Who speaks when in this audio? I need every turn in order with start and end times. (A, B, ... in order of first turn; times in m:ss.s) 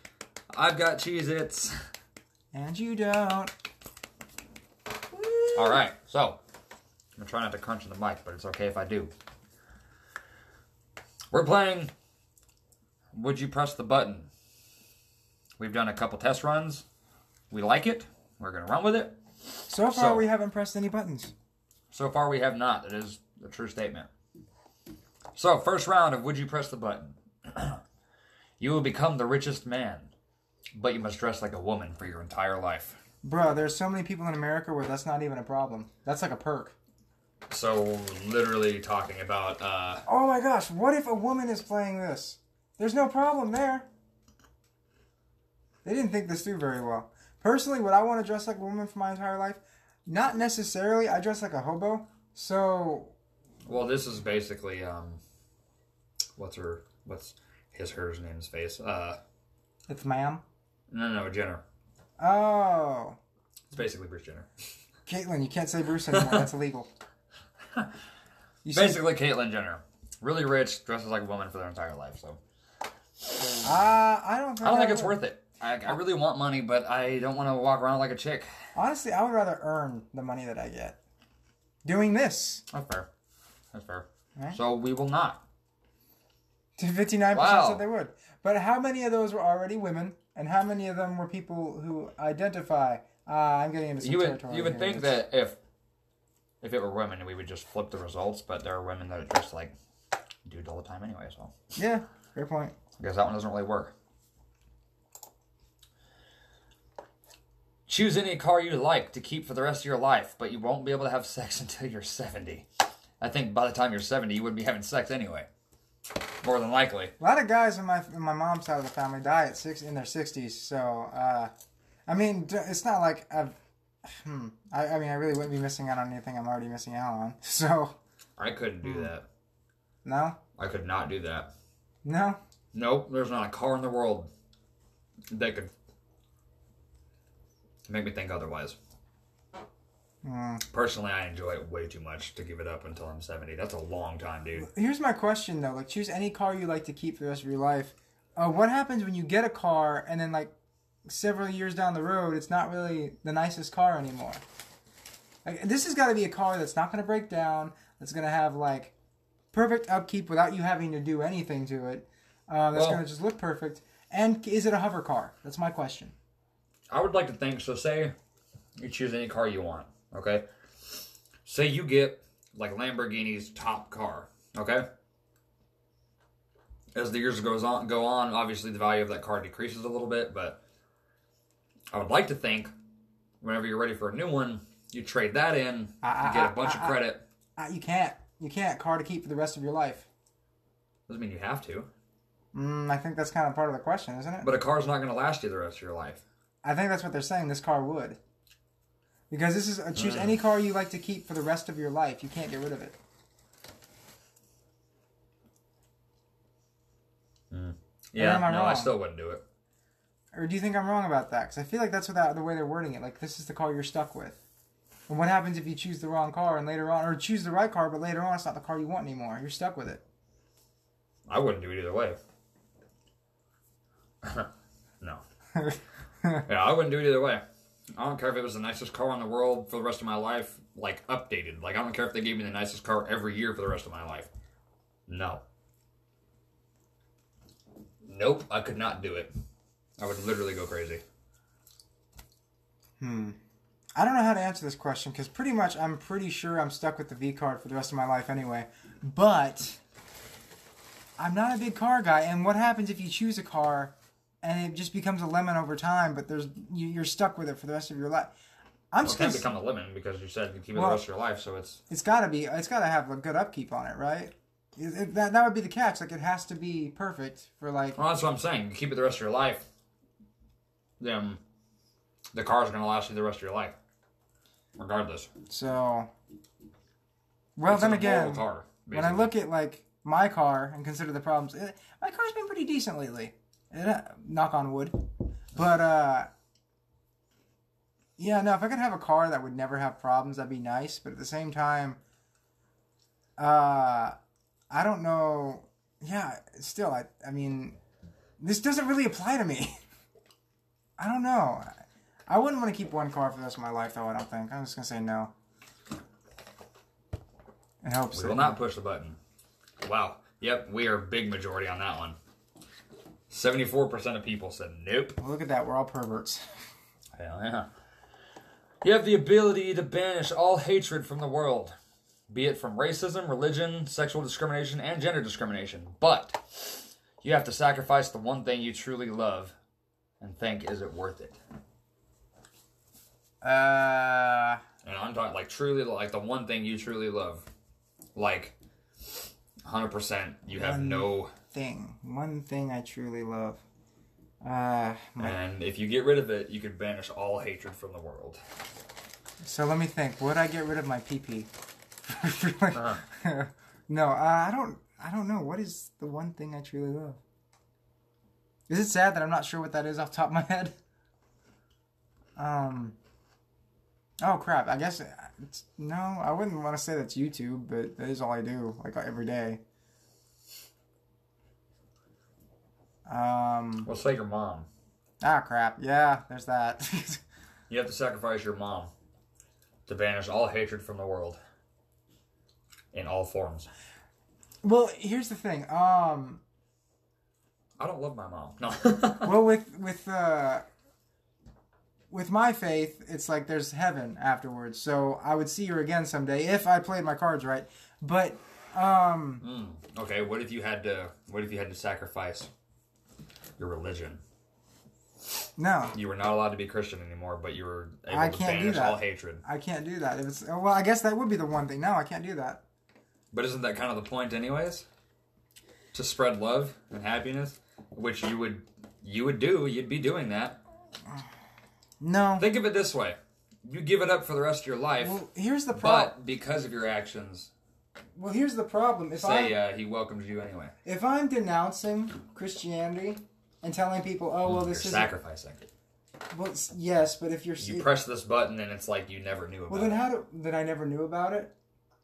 0:00.5-0:01.8 A
0:02.5-0:03.5 B
0:05.1-0:05.8 B
0:05.5-0:06.4 A
0:07.2-0:09.1 A
0:11.3-0:11.9 A
0:13.1-0:14.3 A
0:15.6-0:16.8 A
0:17.5-0:19.2 A
0:19.7-0:21.3 B
0:19.8-0:20.2 A
0:21.9-0:24.1 A
0:25.3-0:27.8 A
0:28.6-0:30.1 A
0:30.7-0:33.0 A
0:33.2-0:36.7 B
0:37.5-0:40.0 A
0:40.0-0:43.9 B
0:45.8-0:53.1 B
0:53.6-0:55.2 A
0:56.4-0:59.2 A
0:59.9-1:00.4 B
1:00.9-1:01.6 A
1:02.2-1:03.2 B
1:03.7-1:04.5 A
1:05.0-1:06.9 B
1:06.1-1:06.5 A
1:08.6-1:09.0 B
1:08.7-1:12.4 A
1:13.6-1:15.2 B
1:14.6-1:18.5 A
1:18.7-1:21.0 B
1:21.8-1:22.6 B
1:22.7-1:23.1 A
1:23.7-1:25.4 A
1:26.8-1:35.2 B
1:27.3-1:27.8 A
1:34.0-1:35.6 A
1:36.6-1:39.7 A
1:40.4-1:41.5 A
1:41.8-1:42.7 B
1:43.0-1:43.9 A
1:47.9-1:52.7 A
1:53.2-1:55.5 A
1:56.4-1:57.1 A
1:57.2-2:01.5 B
2:02.1-2:07.9 B
2:08.4-2:09.3 A
2:08.8-2:09.1 B
2:10.0-2:10.4 B
2:10.6-2:11.5 A
2:12.0-2:12.4 B
2:12.7-2:14.3 A
2:15.3-2:15.7 A
2:17.9-2:18.8 A
2:20.2-2:20.6 B
2:20.7-2:24.7 A
2:24.6-2:30.5 B
2:31.0-2:34.4 B
2:35.4-2:38.9 B
2:39.5-2:46.1 B
2:42.7-2:43.0 A
2:46.9-2:48.1 A
2:48.8-2:50.4 A
2:51.4-2:54.9 A
2:56.9-3:00.6 A
3:01.9-3:02.7 A
3:03.4-3:07.2 A
3:06.0-3:07.0 B
3:07.6-3:10.1 B
3:11.1-3:11.9 A
3:12.5-3:14.5 B
3:14.4-3:16.2 A
3:16.6-3:18.2 B
3:19.3-3:23.0 B
3:19.9-3:20.4 A
3:27.5-3:29.4 A
3:28.2-3:28.9 B
3:30.3-3:34.4 B
3:35.1-3:40.0 B
3:41.3-3:42.2 A
3:44.2-3:44.5 A
3:45.6-3:46.4 B
3:46.5-3:47.4 A
3:47.9-3:54.3 A
3:55.1-3:55.4 A
3:58.0-3:59.3 A
4:00.0-4:01.0 A
4:03.0-4:03.4 B
4:04.0-4:09.8 B
4:11.2-4:18.3 B
4:18.9-4:19.5 B
4:19.0-4:21.8 A
4:20.7-4:21.0 B
4:21.9-4:28.0 B
4:28.0-4:29.6 A
4:31.0-4:31.4 A
4:32.3-4:33.8 A
4:34.8-4:35.3 A
4:35.5-4:36.1 B
4:37.6-4:45.0 B
4:37.7-4:39.3 A
4:45.5-4:46.3 B
4:48.2-4:52.0 B
4:53.4-4:54.2 B
4:54.7-4:57.8 B
4:58.4-4:59.7 B
5:01.0-5:01.7 B
5:02.3-5:05.3 B
5:07.8-5:08.6 B
5:08.1-5:09.2 A
5:09.8-5:12.2 A
5:13.3-5:15.2 A
5:15.2-5:16.4 B
5:17.1-5:17.7 A
5:18.8-5:21.7 A
5:22.3-5:29.5 A
5:30.2-5:31.4 A
5:33.4-5:34.6 B
5:34.8-5:37.5 A
5:38.1-5:38.5 A
5:39.6-5:41.3 A
5:40.5-5:43.6 B
5:44.4-5:45.4 B
5:45.2-5:48.4 A
5:49.4-5:51.5 B
5:52.1-5:57.2 B
5:52.7-5:53.0 A
5:58.7-6:00.7 B
6:02.4-6:03.0 B
6:04.2-6:09.6 B
6:13.1-6:13.9 B
6:13.8-6:14.7 A
6:15.2-6:17.2 B
6:17.7-6:18.9 A
6:19.8-6:21.4 A
6:22.9-6:23.7 A
6:24.6-6:26.4 B
6:27.8-6:29.4 A
6:29.2-6:30.6 B
6:32.1-6:39.4 B
6:39.4-6:42.5 A
6:43.6-6:44.2 A
6:45.6-6:46.0 B
6:45.9-6:49.4 A
6:48.1-6:52.6 B
6:53.3-6:54.8 A
6:55.9-7:00.6 A
7:02.0-7:02.5 B
7:02.4-7:05.2 A
7:05.0-7:06.1 B
7:05.7-7:07.5 A
7:08.2-7:09.6 B
7:09.2-7:10.7 A
7:10.8-7:15.1 B
7:14.4-7:15.7 A
7:16.3-7:17.9 B
7:17.6-7:20.0 A
7:19.7-7:21.5 B